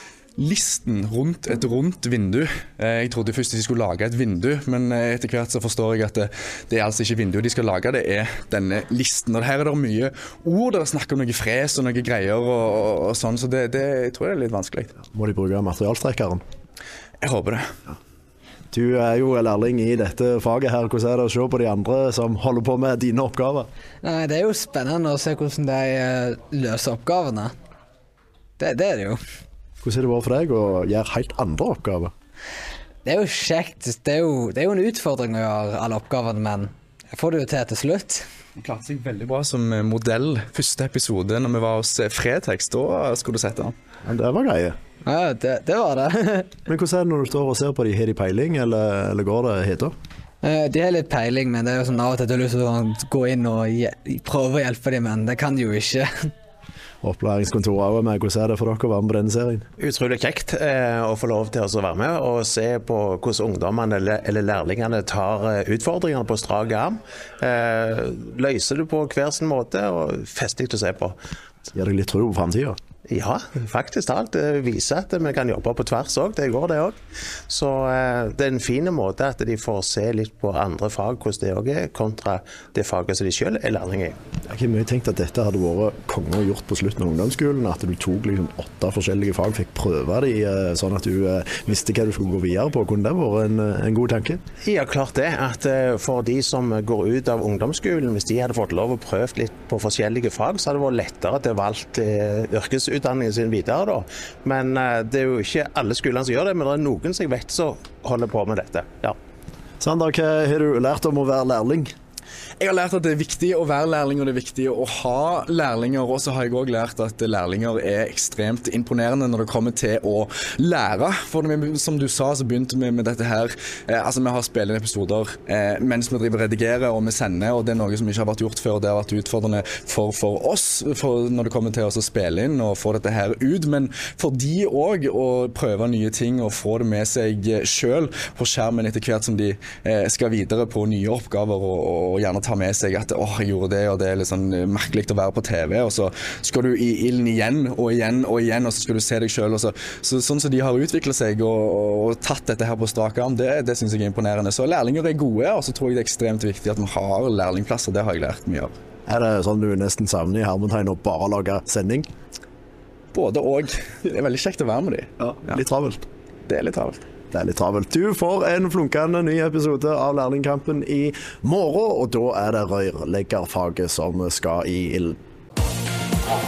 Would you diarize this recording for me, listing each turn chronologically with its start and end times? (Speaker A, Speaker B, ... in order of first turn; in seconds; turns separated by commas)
Speaker A: 0.4-15.0, Speaker B: 15.1-16.4, Speaker A: 17.2-17.7, Speaker B: 18.7-23.7, Speaker C: 24.0-27.5, Speaker C: 28.6-29.2, Speaker B: 29.8-32.1, Speaker C: 33.0-38.2, Speaker A: 38.6-43.7, Speaker B: 44.1-44.8, Speaker C: 45.1-46.6, Speaker B: 46.7-50.0, Speaker C: 50.4-56.1, Speaker B: 57.0-59.7, Speaker D: 59.8-71.2, Speaker B: 71.7-72.8, Speaker D: 73.1-77.0, Speaker D: 77.5-84.2, Speaker B: 84.5-94.4, Speaker D: 94.6-109.2, Speaker B: 109.8-111.9, Speaker A: 112.6-158.7, Speaker B: 159.1-162.1, Speaker A: 163.1-165.6, Speaker B: 165.2-166.1, Speaker A: 166.5-167.0, Speaker B: 167.3-175.2